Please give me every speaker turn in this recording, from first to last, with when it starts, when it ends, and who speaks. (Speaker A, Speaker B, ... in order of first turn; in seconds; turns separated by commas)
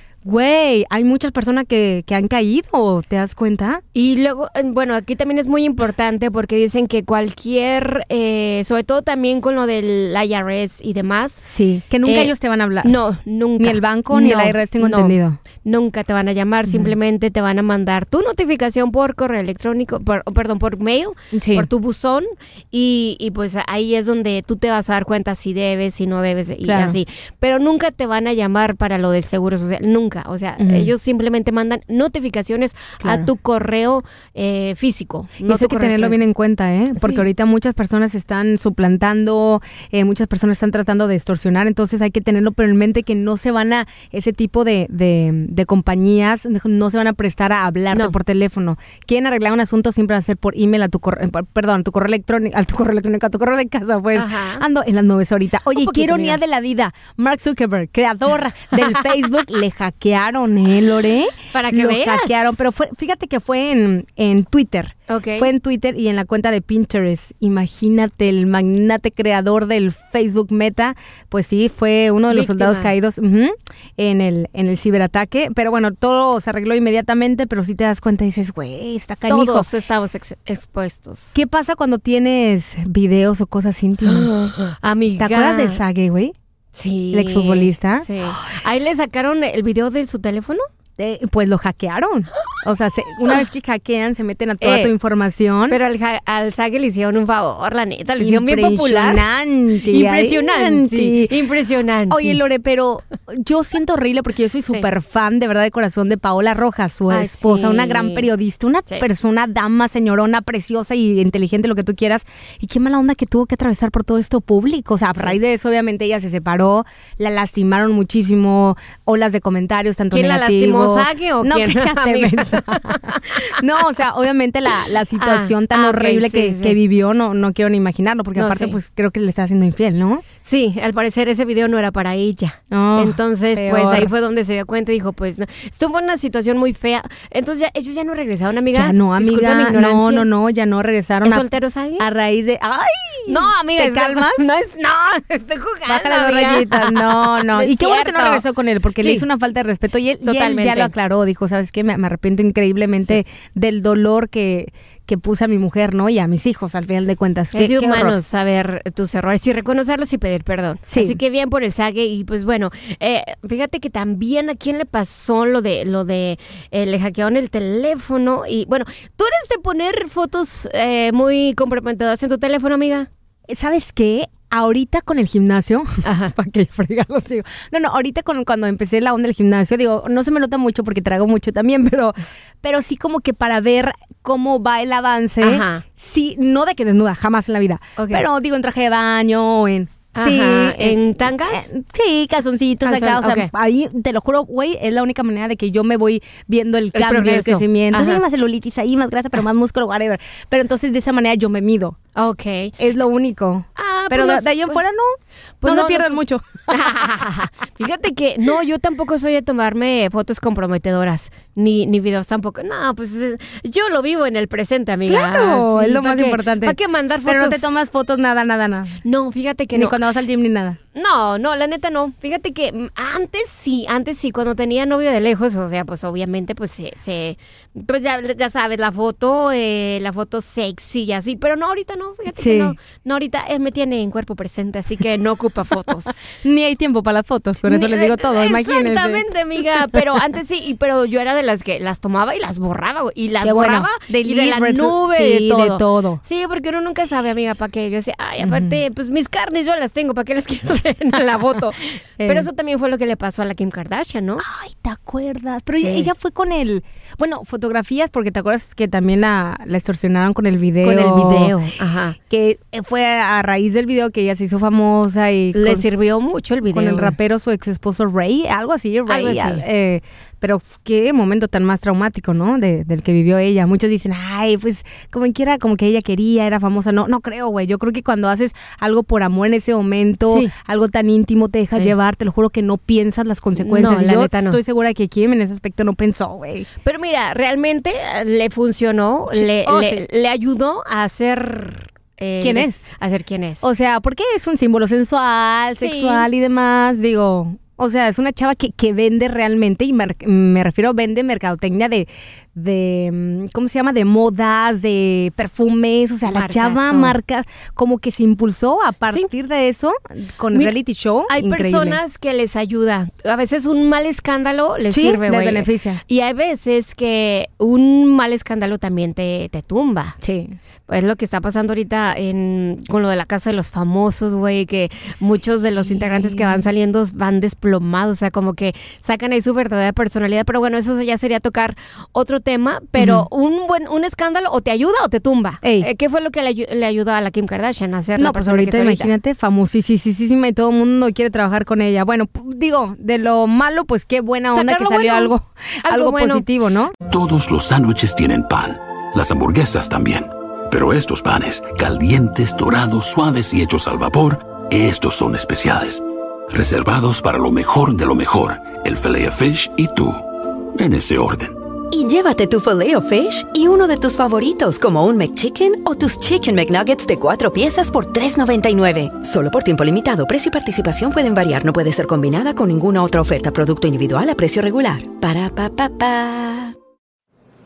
Speaker A: 0.2-3.8, Speaker B: 3.9-11.4, Speaker A: 11.4-12.9, Speaker B: 12.0-36.2, Speaker A: 13.6-15.4, Speaker A: 16.7-16.9, Speaker A: 21.3-21.7, Speaker A: 26.6-27.0, Speaker A: 30.6-30.9, Speaker A: 33.0-33.3, Speaker A: 35.4-79.7, Speaker B: 54.1-54.6, Speaker B: 55.8-56.4, Speaker B: 61.5-62.6, Speaker B: 65.1-65.5, Speaker B: 72.3-72.9, Speaker B: 79.3-81.3, Speaker A: 81.3-84.3, Speaker B: 84.0-85.8, Speaker A: 85.2-86.3, Speaker B: 86.8-90.7, Speaker A: 87.1-88.5, Speaker A: 91.0-95.8, Speaker B: 94.6-94.9, Speaker B: 95.7-99.3, Speaker A: 98.2-101.3, Speaker B: 99.9-102.4, Speaker A: 102.1-130.2, Speaker B: 107.1-108.2, Speaker B: 120.1-123.4, Speaker B: 125.2-126.8, Speaker B: 128.4-128.8, Speaker B: 130.4-140.3, Speaker A: 132.7-134.1, Speaker A: 138.7-141.4, Speaker B: 141.2-142.1, Speaker A: 142.0-144.5, Speaker B: 143.3-148.4, Speaker A: 145.9-158.2, Speaker B: 149.0-149.3, Speaker B: 150.2-150.9, Speaker B: 157.5-173.1, Speaker A: 160.9-161.2, Speaker A: 173.5-202.0, Speaker B: 176.1-176.3, Speaker B: 185.4-185.8, Speaker B: 188.0-188.2, Speaker B: 190.2-191.6, Speaker B: 192.8-193.5, Speaker B: 196.9-198.2, Speaker B: 202.2-202.7, Speaker A: 202.8-206.8, Speaker B: 203.8-204.8, Speaker B: 205.6-206.2, Speaker B: 206.7-217.7, Speaker A: 215.1-219.0, Speaker B: 219.1-220.0, Speaker A: 219.7-220.8, Speaker B: 220.9-236.2, Speaker A: 232.3-232.8, Speaker A: 236.4-239.2, Speaker B: 237.7-254.4, Speaker A: 243.4-246.2, Speaker A: 248.4-248.8, Speaker A: 252.2-252.5, Speaker A: 254.4-261.5, Speaker B: 255.8-256.1, Speaker B: 260.8-262.2, Speaker A: 262.3-265.9, Speaker B: 265.6-267.1, Speaker A: 266.7-286.7, Speaker B: 269.1-269.6, Speaker B: 283.6-284.6, Speaker B: 286.8-293.6, Speaker A: 289.3-290.0, Speaker A: 292.4-292.9, Speaker A: 293.6-312.0, Speaker B: 295.8-296.3, Speaker B: 306.3-307.1, Speaker B: 311.3-320.2, Speaker A: 314.9-316.0, Speaker A: 320.2-320.6, Speaker B: 320.9-339.1, Speaker A: 325.8-326.7, Speaker A: 333.0-333.2, Speaker A: 335.6-335.9, Speaker A: 338.2-346.9, Speaker B: 344.5-345.3, Speaker B: 345.9-346.4, Speaker C: 347.1-361.6, Speaker D: 361.9-376.7